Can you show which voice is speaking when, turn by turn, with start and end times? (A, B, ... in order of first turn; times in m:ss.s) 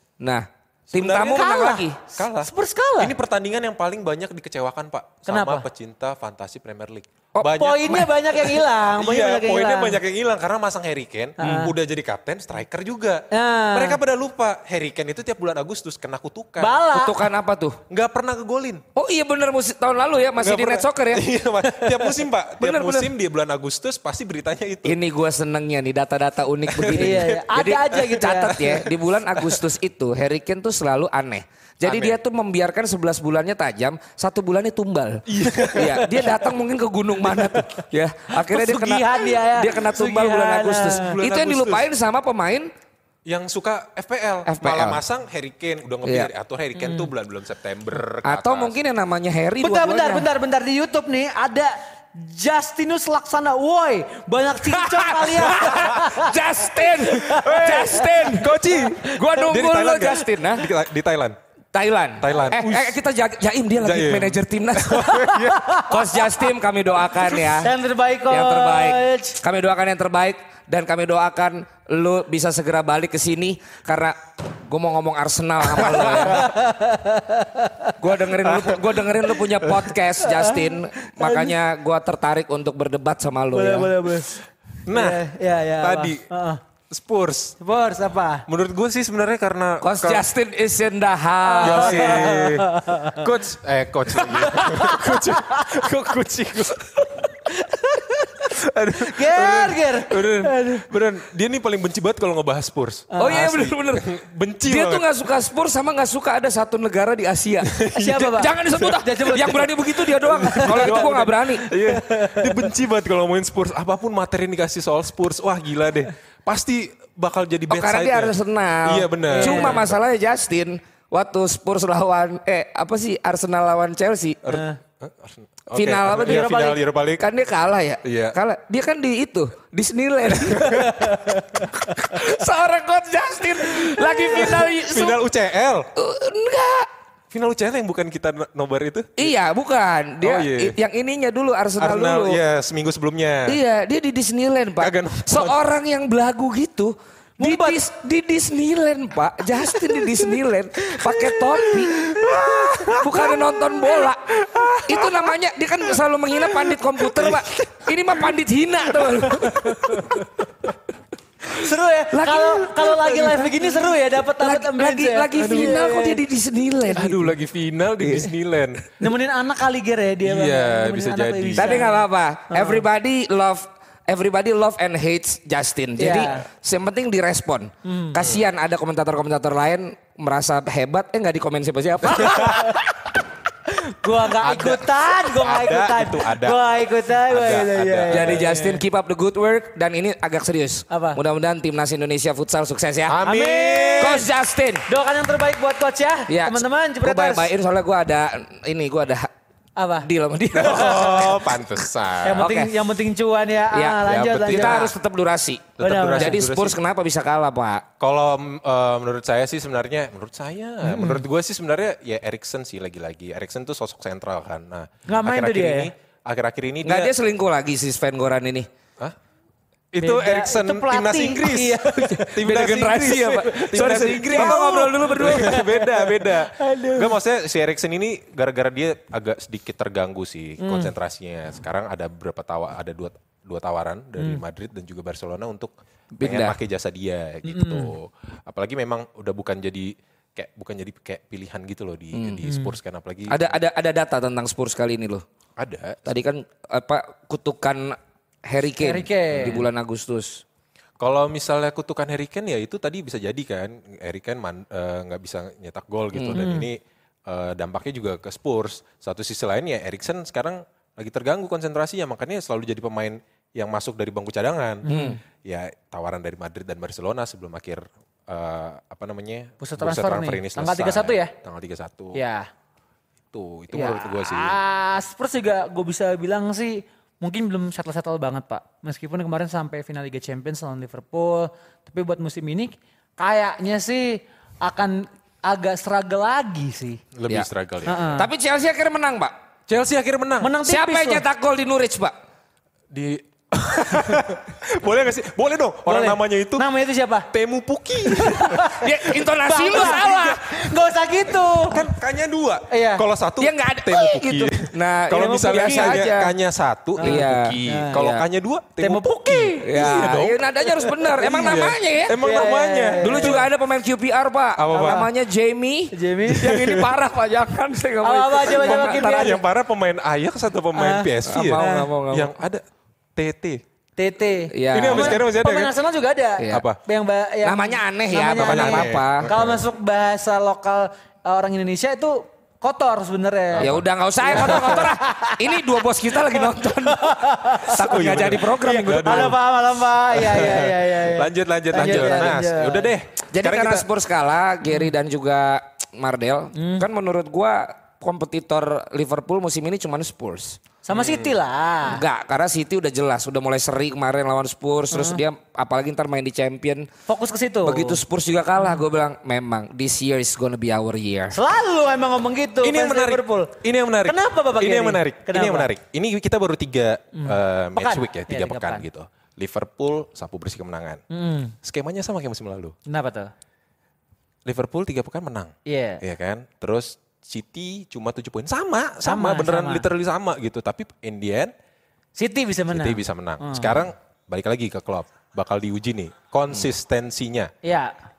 0:00.2-0:02.0 A
0:00.9-0:08.3 B
0:02.4-0:03.1 C
0:05.3-0:05.7 C
0:07.4-0:08.1 A
0:07.6-0:10.0 C
0:08.8-0:16.8 B
0:11.4-0:11.7 C
0:13.3-0:14.0 C
0:16.6-0:17.3 C
0:16.9-0:17.8 A
0:17.9-0:18.8 B
0:19.0-0:21.3 A
0:20.4-0:25.0 B
0:22.6-0:23.1 A
0:24.8-0:42.7 A
0:26.7-0:27.3 B
0:26.9-0:28.8 C
0:29.4-0:29.6 B
0:31.8-0:32.2 B
0:35.3-0:36.5 B
0:37.2-0:37.7 B
0:38.4-0:41.2 C
0:41.0-0:41.9 B
0:43.3-0:48.8 B
0:44.5-0:45.0 A
0:46.0-0:46.3 A
0:48.2-0:50.3 A
0:49.6-0:59.3 C
0:54.6-1:00.7 A
0:57.3-1:01.4 B
1:01.7-1:07.7 A
1:02.2-1:03.0 B
1:03.8-1:05.8 B
1:05.0-1:06.4 C
1:07.4-1:09.4 C
1:08.3-1:16.5 A
1:15.8-1:16.4 B
1:16.1-1:18.0 C
1:18.0-1:24.0 A
1:18.4-1:19.0 B
1:19.6-1:19.9 B
1:20.2-1:21.5 C
1:23.5-1:26.6 C
1:24.9-1:25.2 B
1:25.8-1:26.2 B
1:26.9-1:27.6 B
1:27.6-1:28.5 C
1:28.5-1:30.3 B
1:29.8-1:32.4 A
1:31.4-1:33.3 C
1:31.6-1:37.3 B
1:34.1-1:35.8 C
1:37.5-1:38.3 C
1:38.4-1:45.1 B
1:39.0-1:40.9 C
1:43.1-1:43.5 C
1:43.2-1:44.1 A
1:44.6-1:51.7 A
1:47.7-1:48.2 B
1:47.9-1:52.6 C
1:50.1-2:00.0 B
1:57.7-2:04.4 A
1:59.3-1:59.9 C
2:04.4-2:07.2 B
2:04.5-2:04.8 C
2:05.7-2:15.2 A
2:06.2-2:06.7 C
2:08.0-2:08.4 B
2:10.6-2:10.8 B
2:10.6-2:11.7 C
2:14.0-2:15.9 B
2:16.0-2:16.9 A
2:17.3-2:19.3 B
2:19.2-2:22.4 A
2:20.2-2:20.8 B
2:21.8-2:23.6 B
2:23.5-2:40.2 A
2:24.8-2:25.6 B
2:27.4-2:27.8 C
2:31.0-2:35.3 B
2:36.4-2:37.5 B
2:39.0-2:40.2 B
2:39.5-2:40.2 C
2:41.5-2:46.2 C
2:42.1-2:47.4 A
2:45.4-2:45.8 B
2:46.9-2:48.8 B
2:48.0-2:48.3 A
2:49.0-2:52.8 C
2:50.2-2:51.9 B
2:51.6-3:02.8 A
2:56.0-2:56.4 C
2:57.8-2:58.2 C
3:02.2-3:02.9 C
3:02.2-3:02.7 B
3:03.7-3:08.8 C
3:04.4-3:06.6 B
3:07.2-3:08.5 B
3:08.1-3:13.2 A
3:10.9-3:11.2 C
3:13.1-3:14.3 B
3:13.2-3:14.3 C
3:14.0-3:14.9 A
3:14.9-3:17.5 C
3:16.3-3:19.3 A
3:19.8-3:20.1 C
3:20.0-3:21.4 A
3:20.6-3:22.5 B
3:20.8-3:21.3 C
3:22.2-3:24.9 C
3:22.4-3:22.7 A
3:23.7-3:27.9 A
3:24.0-3:24.9 B
3:25.8-3:26.8 B
3:25.8-3:26.4 C
3:28.0-3:37.1 B
3:30.8-3:31.2 C
3:35.1-3:35.9 C
3:36.8-3:38.7 A
3:39.9-4:03.5 B
3:40.0-3:42.6 C
3:42.4-3:45.8 A
3:43.4-3:47.1 C
3:50.6-3:50.9 C
3:56.2-3:56.6 A
3:57.4-3:57.9 C
4:02.1-4:02.4 A
4:02.5-4:02.7 C
4:03.3-4:05.2 A
4:05.6-4:06.1 B
4:06.1-4:10.4 A
4:08.8-4:09.6 C
4:09.3-4:09.6 B
4:11.0-4:24.9 B
4:16.1-4:16.5 A
4:16.4-4:16.7 C
4:24.8-4:25.2 C
4:24.9-4:25.2 A
4:25.4-4:32.2 B
4:29.6-4:31.3 C
4:32.1-4:32.5 C
4:33.3-4:34.6 B
4:33.7-4:47.0 C
4:47.2-4:48.1 B
4:47.8-4:48.3 C
4:48.2-4:49.3 A
4:49.7-4:50.5 B
4:50.4-4:51.2 C
4:50.7-4:52.1 A
4:52.9-4:56.7 B
4:55.9-4:57.3 C
4:57.3-5:00.2 B
4:58.1-5:01.9 C
4:58.6-5:00.4 A
5:01.4-5:10.5 B
5:02.7-5:03.0 C
5:03.4-5:06.3 A
5:05.2-5:06.1 C
5:07.0-5:08.0 C
5:07.0-5:08.2 A
5:08.8-5:10.0 C
5:09.6-5:12.5 A
5:11.1-5:13.5 B
5:12.1-5:13.4 C
5:13.0-5:19.4 A
5:14.6-5:15.1 B
5:14.7-5:15.0 C
5:15.9-5:16.6 C
5:16.3-5:16.9 B
5:18.0-5:19.4 C
5:18.6-5:22.6 B
5:20.8-5:21.9 C
5:21.2-5:22.3 A
5:23.2-5:23.6 B
5:24.0-5:42.9 C
5:24.5-5:25.2 A
5:24.7-5:25.8 B
5:26.4-5:26.6 A
5:26.5-5:26.8 B
5:27.4-5:29.3 A
5:28.4-5:29.6 B
5:33.5-5:34.8 B
5:33.6-5:39.4 A
5:37.8-5:39.4 B
5:40.1-5:43.9 B
5:41.8-5:42.3 A
5:43.3-5:50.6 A
5:46.6-5:46.9 C
5:50.8-5:52.0 C
5:50.9-5:51.3 B
5:51.8-5:56.9 A
5:54.9-5:55.2 C
5:57.1-5:58.0 C
5:57.6-6:01.4 A
6:01.3-6:05.7 C
6:02.6-6:11.0 B
6:07.2-6:08.8 C
6:11.1-6:11.5 C
6:11.6-6:12.8 B
6:12.9-6:13.3 C
6:14.4-6:21.5 B
6:15.7-6:16.0 C
6:19.0-6:19.8 C
6:22.2-6:23.8 C
6:22.7-6:27.5 B
6:27.6-6:27.9 C